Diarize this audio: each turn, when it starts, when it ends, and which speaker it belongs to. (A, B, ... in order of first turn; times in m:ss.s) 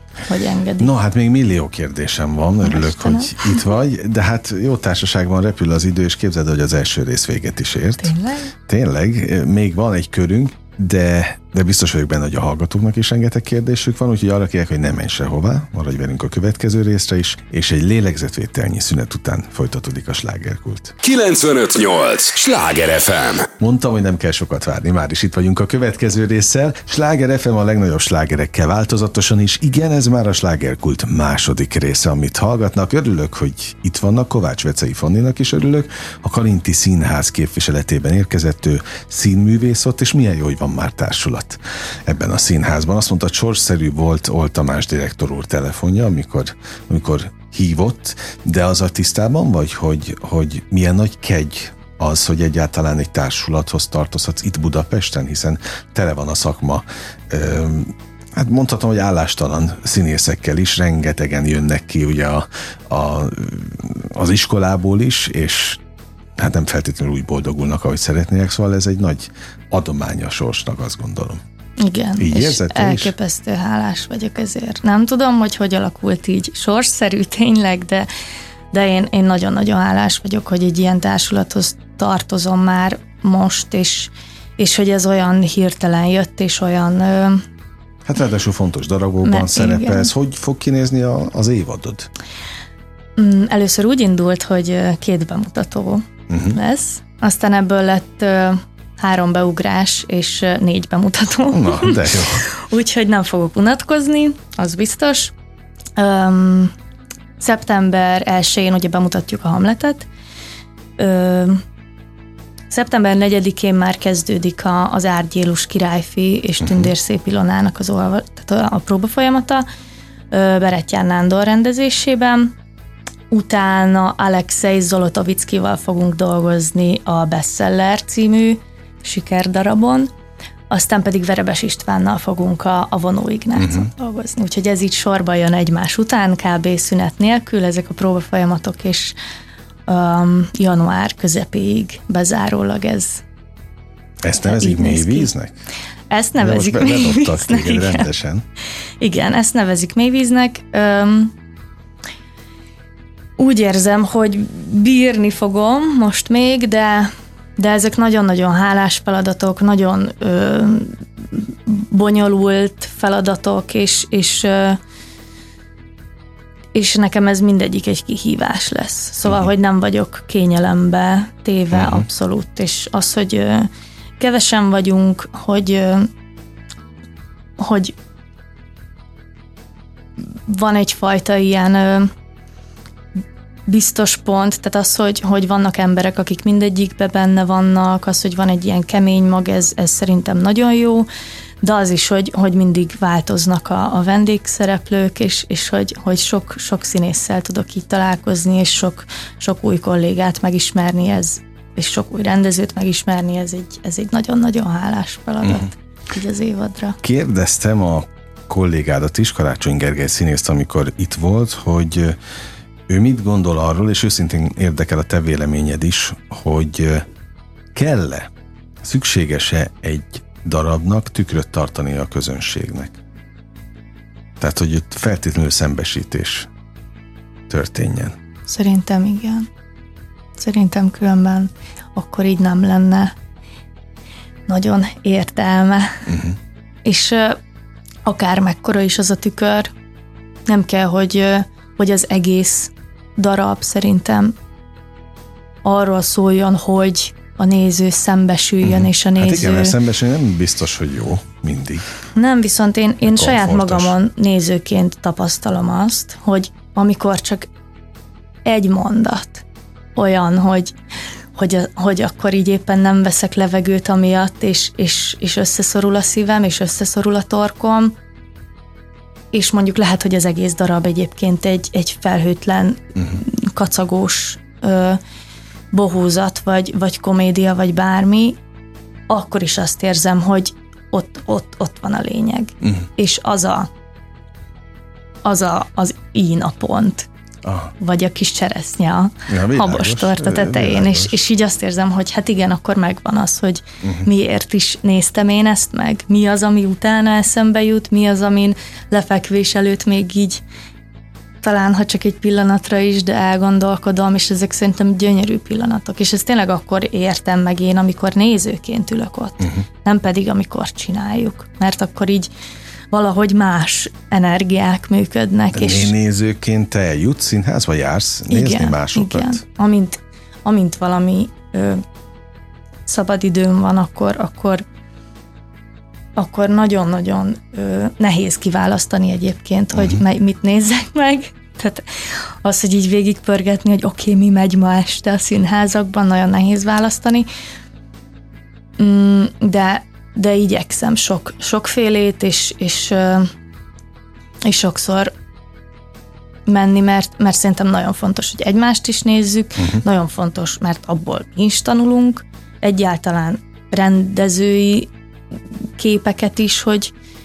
0:00.3-0:00.9 A
0:00.8-0:08.1 B
0:02.6-0:03.6 A
0:08.0-0:08.5 A
0:08.7-0:21.0 B
0:21.0-0:23.5 C
0:23.6-1:05.8 B
1:06.4-1:11.4 B
1:11.8-1:18.1 A
1:12.2-1:13.1 B
1:18.7-1:27.4 A
1:28.0-1:32.1 B
1:29.2-1:30.1 A
1:33.2-1:45.3 A
1:36.3-1:36.6 B
1:41.5-1:42.5 B
1:46.0-1:46.7 A
1:47.4-1:50.1 A
1:51.0-1:51.6 A
1:52.7-1:59.6 A
1:56.6-1:56.9 B
2:00.3-2:02.5 A
2:03.3-2:10.1 A
2:10.7-2:19.2 A
2:13.6-2:13.9 B
2:19.9-2:23.2 A
2:24.2-2:25.6 B
2:24.4-2:25.3 A
2:26.1-2:28.1 A
2:26.4-2:28.4 B
2:29.0-2:31.3 A
2:33.4-2:44.8 A
2:46.7-2:56.1 A
2:51.7-2:52.0 B
2:57.6-2:57.9 A
3:00.2-3:02.1 A
3:03.7-3:11.1 A
3:11.6-3:27.0 A
3:27.0-3:32.2 B
3:32.9-3:37.0 B
3:37.7-3:38.3 B
3:38.8-3:43.0 B
3:44.4-3:46.5 B
3:47.5-3:48.2 B
3:48.5-3:49.5 A
3:50.4-3:53.1 A
3:54.5-3:56.0 A
3:56.1-3:56.4 B
3:56.8-3:57.4 A
3:58.0-3:59.7 A
4:00.5-4:04.3 A
4:05.6-4:09.7 A
4:08.6-4:11.9 B
4:12.2-4:17.5 A
4:13.0-4:13.9 B
4:18.4-4:19.4 A
4:20.0-4:20.7 A
4:21.3-4:27.9 A
4:29.3-4:35.0 A
4:35.7-4:38.4 A
4:39.1-4:43.7 A
4:45.2-4:47.1 A
4:47.4-4:47.7 B
4:47.8-5:00.4 A
4:49.3-4:51.2 B
4:53.8-4:54.1 B
5:01.4-5:12.3 A
5:12.9-5:15.9 A
5:15.5-5:19.4 B
5:18.3-5:21.8 A
5:22.8-5:24.6 A
5:26.2-5:37.3 A
5:29.7-5:30.0 B
5:38.8-5:43.3 A
5:44.4-5:45.1 A
5:46.5-5:54.9 A
5:49.6-5:49.8 B
5:55.8-5:56.9 A